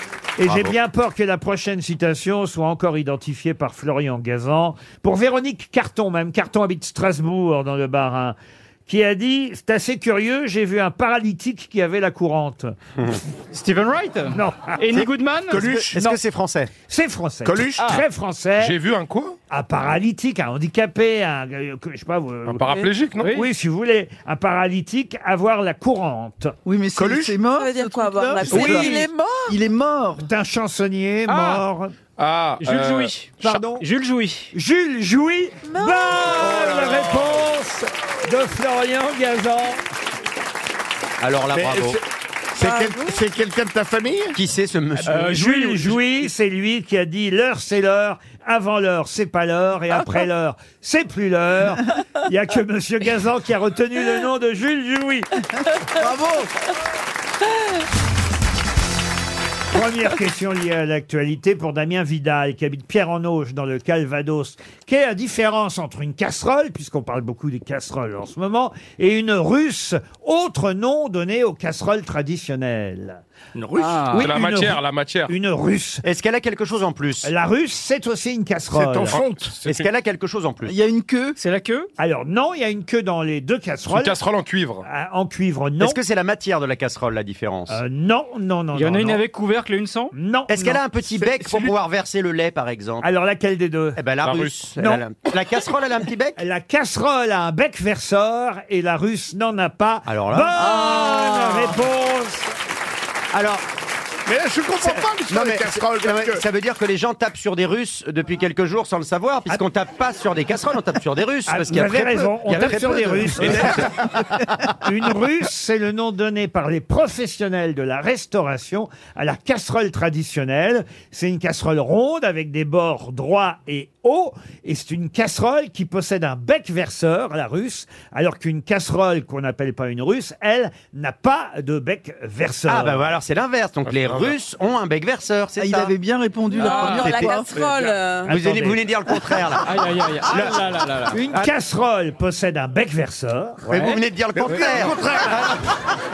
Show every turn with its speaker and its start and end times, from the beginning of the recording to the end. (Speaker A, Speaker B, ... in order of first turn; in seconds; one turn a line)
Speaker A: 0.4-8.4
Speaker B: 0.4-0.8
Speaker A: 8.9-12.8
Speaker C: 13.5-15.7
Speaker A: 14.3-15.0
Speaker D: 15.5-15.9
Speaker B: 15.5-16.7
Speaker A: 16.9-18.7
Speaker D: 17.4-17.9
Speaker E: 18.6-19.4
Speaker A: 19.5-26.6
Speaker E: 22.5-23.3
Speaker C: 23.2-23.5
Speaker F: 26.6-30.3
Speaker D: 27.0-27.4
Speaker G: 27.5-29.6
Speaker A: 28.5-29.1
Speaker A: 30.2-31.9
Speaker C: 31.3-31.6
Speaker E: 32.2-33.1
Speaker C: 32.6-34.5
Speaker A: 33.4-33.9
Speaker A: 34.5-39.8
Speaker G: 35.6-36.7
Speaker B: 36.4-37.2
Speaker B: 41.2-42.0
Speaker D: 41.5-44.4
Speaker G: 42.6-43.2
Speaker B: 44.3-45.2
Speaker C: 45.1-46.0
Speaker A: 45.1-55.3
Speaker F: 56.0-56.5
Speaker A: 59.7-73.2
Speaker D: 73.5-74.2
Speaker C: 73.8-74.3
Speaker A: 74.1-76.0
Speaker E: 74.2-75.3
Speaker B: 76.0-77.3
Speaker A: 77.2-79.2
Speaker D: 78.7-79.5
Speaker E: 79.1-79.9
Speaker B: 79.7-80.8
Speaker F: 80.7-81.4
Speaker C: 81.4-81.9
Speaker A: 82.0-84.2
Speaker E: 83.9-84.8
Speaker A: 84.8-86.0
Speaker B: 85.8-87.8
Speaker A: 87.7-89.2
Speaker C: 88.7-90.1
Speaker A: 90.1-90.8
Speaker B: 90.5-93.1
Speaker D: 91.1-91.7
Speaker A: 93.0-94.0
Speaker B: 94.0-96.4
Speaker E: 94.2-94.5
Speaker A: 94.8-95.0
Speaker A: 96.4-102.5
Speaker B: 100.1-101.8
Speaker B: 103.3-103.7
Speaker D: 104.3-106.4
Speaker B: 104.8-114.7
Speaker A: 111.5-113.9
Speaker D: 113.4-113.9
Speaker A: 114.8-133.0
Speaker B: 132.7-135.9
Speaker F: 135.6-137.5
Speaker G: 136.5-138.3
Speaker C: 136.6-137.2
Speaker B: 136.6-137.4
Speaker A: 138.3-138.8
Speaker B: 138.3-140.6
Speaker C: 139.6-141.5
Speaker A: 141.1-143.7
Speaker B: 143.7-145.8
Speaker C: 143.7-144.9
Speaker D: 144.4-145.4